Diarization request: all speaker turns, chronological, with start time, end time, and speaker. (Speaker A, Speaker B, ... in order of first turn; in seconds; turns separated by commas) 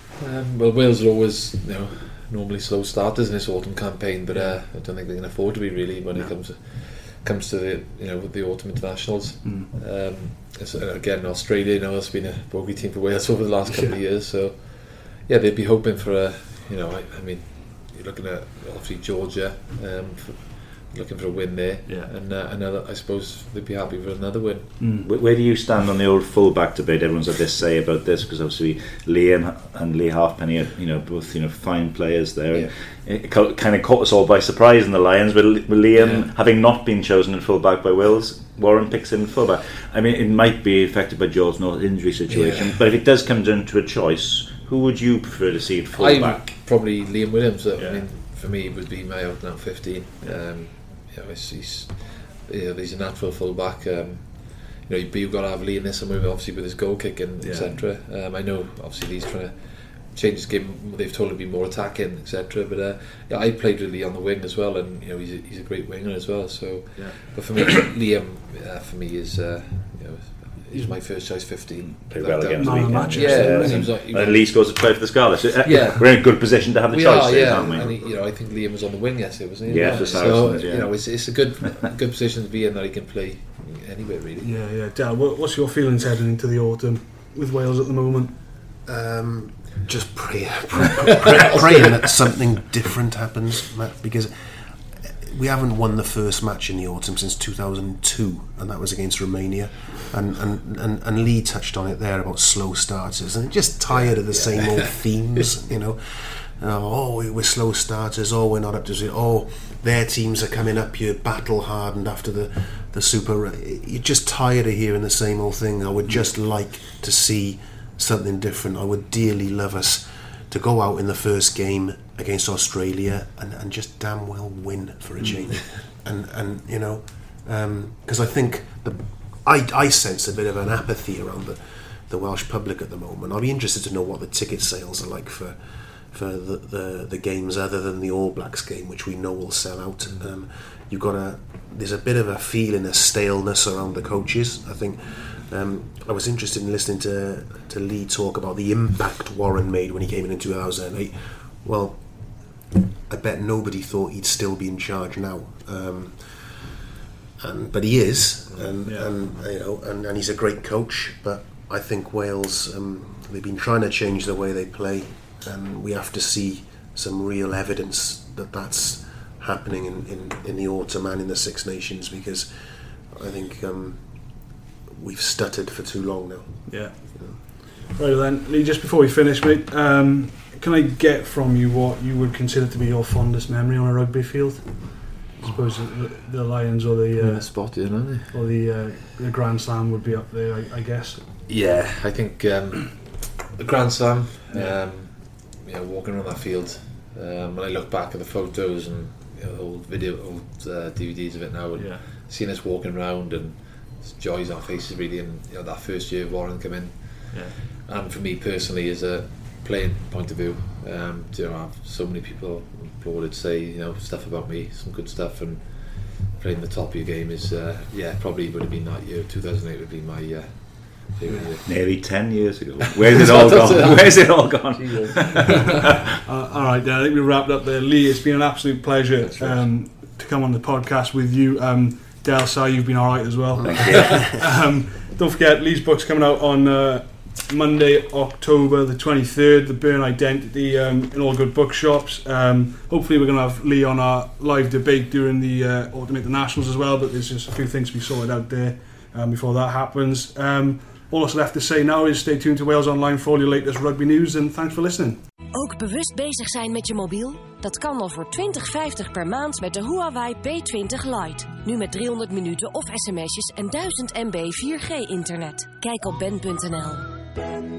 Speaker A: 0.2-24.9, Speaker B: 4.3-4.6, Speaker B: 9.4-9.7, Speaker B: 13.7-14.0, Speaker B: 21.9-22.1, Speaker B: 24.8-25.1, Speaker C: 25.0-46.4, Speaker A: 36.0-36.3, Speaker A: 42.3-42.8, Speaker A: 46.0-74.8, Speaker B: 47.8-48.1, Speaker B: 57.4-57.9, Speaker B: 67.0-67.3, Speaker B: 70.7-71.0, Speaker C: 71.8-78.0, Speaker B: 72.6-73.9, Speaker A: 75.6-84.5, Speaker C: 79.7-81.2, Speaker B: 79.8-80.1, Speaker B: 84.4-88.3, Speaker D: 88.8-156.8, Speaker A: 91.2-91.8, Speaker A: 103.9-105.0, Speaker D: 157.4-177.4, Speaker B: 158.8-159.1, Speaker B: 176.7-191.2, Speaker A: 187.2-188.4, Speaker A: 191.5-221.8, Speaker B: 194.5-194.8, Speaker B: 201.8-202.1, Speaker B: 207.3-207.6, Speaker C: 221.7-225.8, Speaker A: 223.1-225.9, Speaker B: 225.7-255.2, Speaker A: 229.2-229.8, Speaker D: 233.6-234.4, Speaker C: 233.6-234.3, Speaker E: 255.5-267.1